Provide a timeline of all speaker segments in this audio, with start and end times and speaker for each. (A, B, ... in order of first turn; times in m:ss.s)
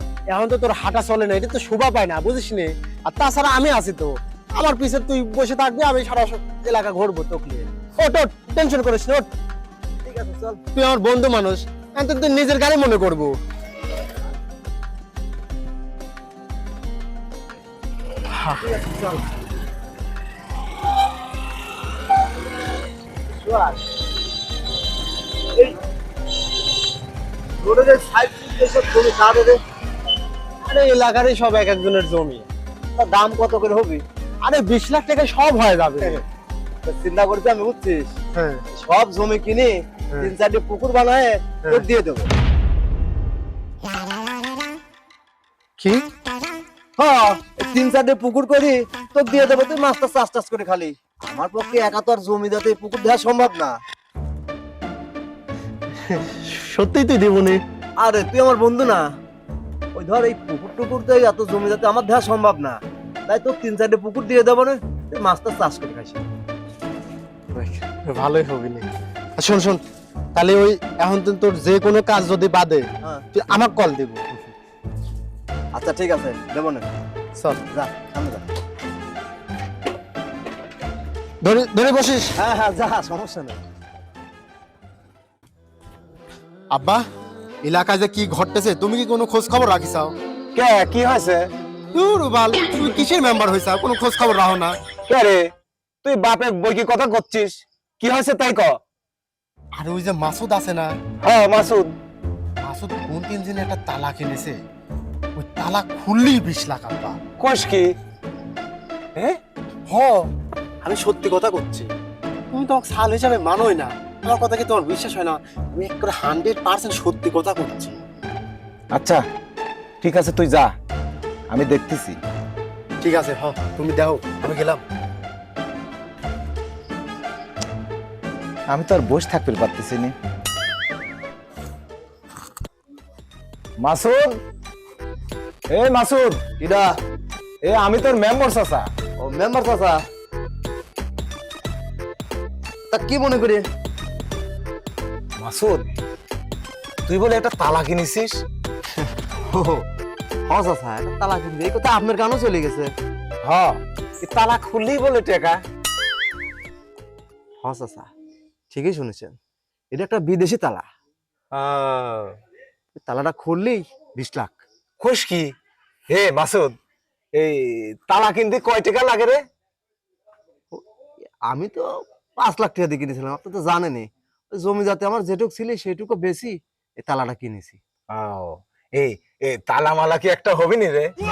0:00.3-0:09.3 A
0:10.0-0:10.6 B
0:10.8-0:13.3 A
0:18.4-0:18.6 A
0:18.6-0:19.2 B
0:23.3-0:23.8 B
0:27.6-0:29.6 B
0:30.7-0:32.5 A
0:33.0-0:34.0 B
0:34.4-0:36.2 A
0:36.8-0:38.1 B
0:38.3-0:38.6 A
0:38.7-0:42.3 B
0:47.0-0:53.8 B
0:56.0-0:57.6 A
0:58.0-0:59.1 B
1:00.0-1:06.2 B
1:07.5-1:08.9 A
1:09.4-1:09.8 A
1:10.4-1:14.5 A
1:15.8-1:16.9 B
1:17.7-1:18.4 B
1:21.4-1:22.3 A
1:22.4-1:23.6 B
1:26.7-1:27.0 A
1:27.6-1:30.1 A
1:30.6-1:31.4 C
1:31.9-1:34.8 A
1:35.1-1:35.4 C
1:36.0-1:38.8 C
1:39.8-1:40.9 A
1:41.2-1:41.9 C
1:42.6-1:44.6 A
1:45.4-1:47.2 A
1:47.4-1:47.9 C
1:49.9-1:50.2 A
1:50.8-1:51.9 A
1:52.5-1:58.0 A
1:58.9-1:59.2 C
2:00.0-2:00.7 C
2:01.5-2:02.2 C
2:03.0-2:04.8 A
2:08.7-2:10.1 C
2:13.8-2:14.3 C
2:15.7-2:16.4 C
2:16.6-2:16.9 B
2:17.6-2:18.9 C
2:19.2-2:20.0 B
2:22.9-2:23.6 B
2:25.4-2:25.9 C
2:27.1-2:28.4 C
2:29.5-2:29.8 B
2:30.5-2:32.9 B
2:33.4-2:35.6 C
2:37.6-2:38.1 B
2:38.7-2:39.4 B
2:39.9-2:40.9 B
2:41.6-2:42.1 A
2:43.0-2:44.6 B
2:45.0-2:45.5 C
2:46.1-2:46.8 C
2:47.4-2:49.4 C
2:51.5-2:51.9 B
2:52.4-2:57.8 B
2:58.1-3:01.1 C